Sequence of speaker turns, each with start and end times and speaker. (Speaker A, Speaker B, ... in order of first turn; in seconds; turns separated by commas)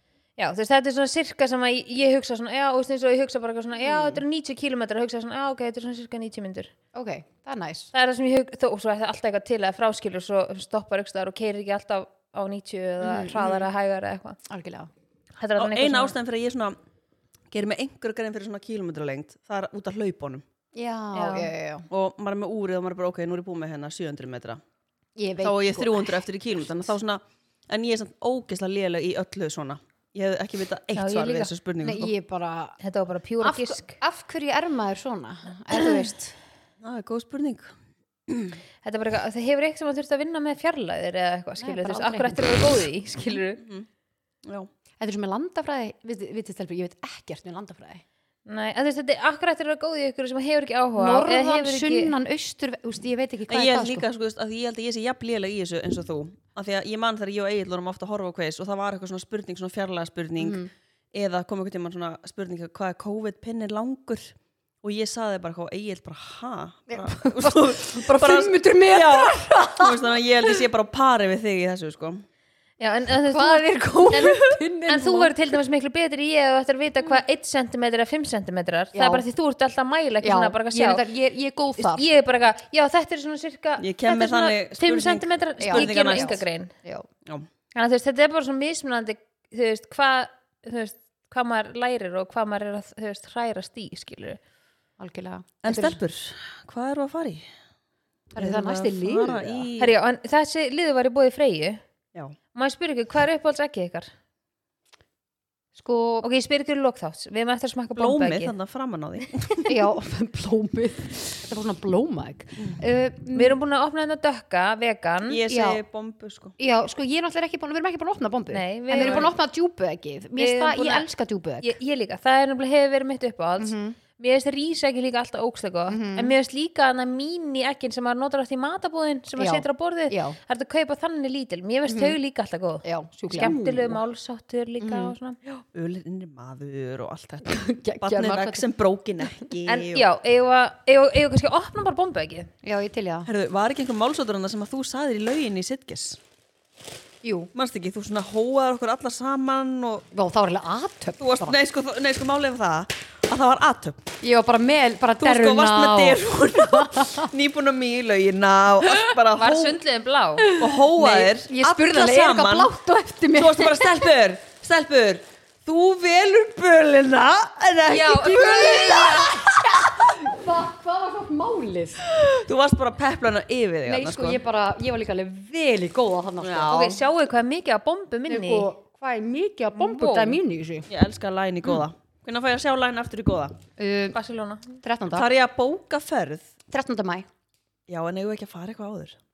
Speaker A: 0.4-6.7, Speaker B: 3.8-4.2, Speaker B: 6.9-7.9, Speaker A: 7.9-14.4, Speaker B: 13.0-13.7, Speaker B: 14.4-14.9, Speaker A: 15.4-16.1, Speaker C: 15.6-16.8, Speaker C: 17.5-20.4, Speaker B: 20.7-21.9, Speaker A: 21.1-21.5, Speaker C: 21.9-24.6, Speaker B: 25.1-26.2, Speaker C: 25.4-32.1, Speaker A: 30.9-31.5, Speaker B: 31.8-32.8, Speaker A: 32.8-34.0, Speaker B: 33.4-36.3, Speaker C: 36.8-37.7, Speaker C: 38.3-38.6, Speaker A: 38.8-43.6, Speaker B: 41.6-42.7, Speaker C: 43.6-43.9, Speaker B: 45.0-48.0, Speaker A: 48.5-52.1, Speaker B: 51.0-54.0, Speaker C: 53.5-72.2, Speaker B: 60.4-60.7, Speaker B: 66.9-70.6, Speaker A: 72.8-81.0, Speaker B: 73.2-75.5, Speaker B: 78.9-79.2, Speaker B: 80.2-82.1, Speaker A: 81.8-86.7, Speaker C: 83.8-86.4, Speaker B: 85.6-87.1, Speaker A: 87.7-94.4, Speaker B: 95.0-96.0, Speaker C: 95.6-97.5, Speaker B: 98.3-99.7, Speaker C: 98.4-100.0, Speaker A: 99.8-101.8, Speaker A: 102.5-104.1, Speaker B: 105.7-106.3, Speaker A: 106.2-108.5, Speaker C: 107.9-109.7, Speaker B: 109.7-113.6, Speaker A: 113.3-115.4, Speaker C: 115.3-116.5, Speaker B: 115.5-115.8, Speaker B: 116.6-121.7, Speaker A: 118.5-119.3, Speaker C: 119.0-119.2, Speaker A: 120.4-121.0, Speaker A: 121.6-135.4, Speaker B: 123.6-124.0, Speaker B: 125.9-126.3, Speaker B: 129.4-130.4, Speaker B: 131.9-132.2, Speaker B: 132.8-134.0, Speaker B: 134.8-135.1, Speaker C: 135.7-140.1, Speaker B: 137.4-138.7, Speaker A: 139.7-142.5, Speaker B: 142.6-143.3, Speaker C: 143.2-146.2, Speaker B: 147.2-147.5, Speaker C: 147.5-150.1, Speaker B: 150.1-151.6, Speaker C: 151.2-154.0, Speaker B: 154.2-157.3, Speaker C: 155.2-159.8, Speaker A: 159.3-160.5, Speaker B: 160.4-164.1, Speaker C: 160.5-162.7, Speaker C: 163.3-169.3, Speaker A: 167.9-169.2, Speaker B: 167.9-172.1, Speaker C: 172.1-174.4, Speaker B: 173.8-176.9, Speaker C: 176.4-177.0, Speaker A: 176.7-178.7, Speaker B: 178.3-180.9, Speaker A: 179.7-180.4, Speaker C: 180.9-183.6, Speaker B: 183.8-184.2, Speaker A: 184.1-184.8, Speaker B: 184.8-185.3, Speaker C: 185.1-186.5, Speaker B: 186.7-187.3, Speaker C: 187.9-189.2